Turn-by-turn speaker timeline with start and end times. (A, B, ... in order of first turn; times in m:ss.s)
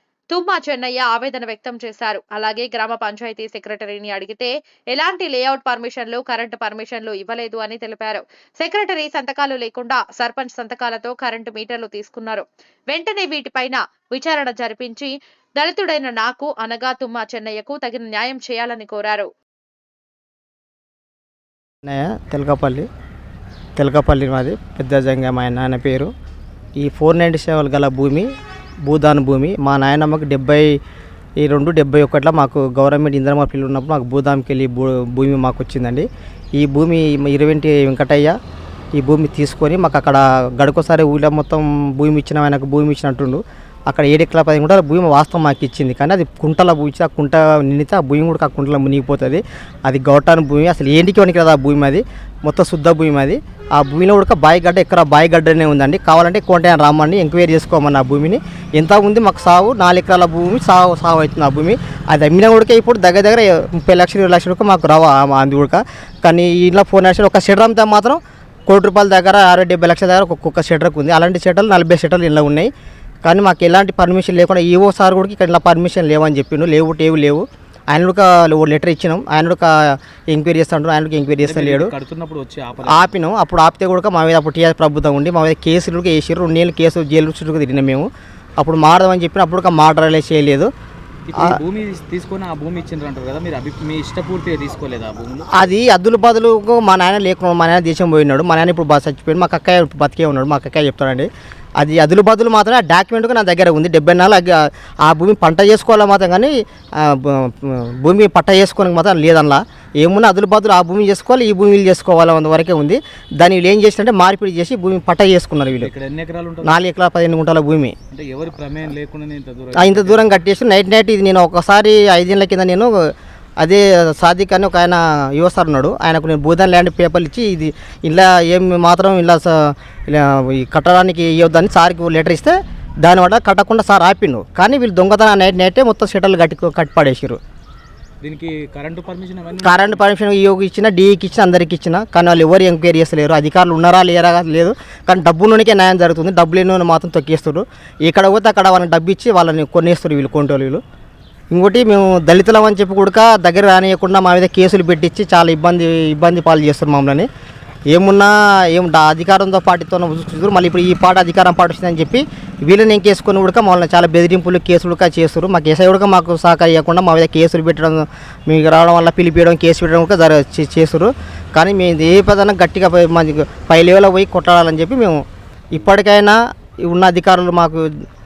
0:00.3-0:19.3 A
0:21.8-0:22.9 B
0:23.8-0:26.1 B
0:26.8-0:28.3 B
0:28.9-0:30.8 B
0:31.4-0:38.4 B
0:39.0-1:12.7 B
1:13.2-1:21.9 B
1:21.4-1:23.1 C
1:22.9-1:30.7 B
1:31.3-1:35.6 C
1:35.5-1:55.9 B
1:55.8-1:56.8 C
1:56.6-1:58.0 B
1:58.1-2:00.2 C
1:59.7-2:17.4 B
2:18.2-2:20.0 C
2:19.6-2:30.8 B
2:31.5-2:37.3 B
2:37.9-2:57.9 B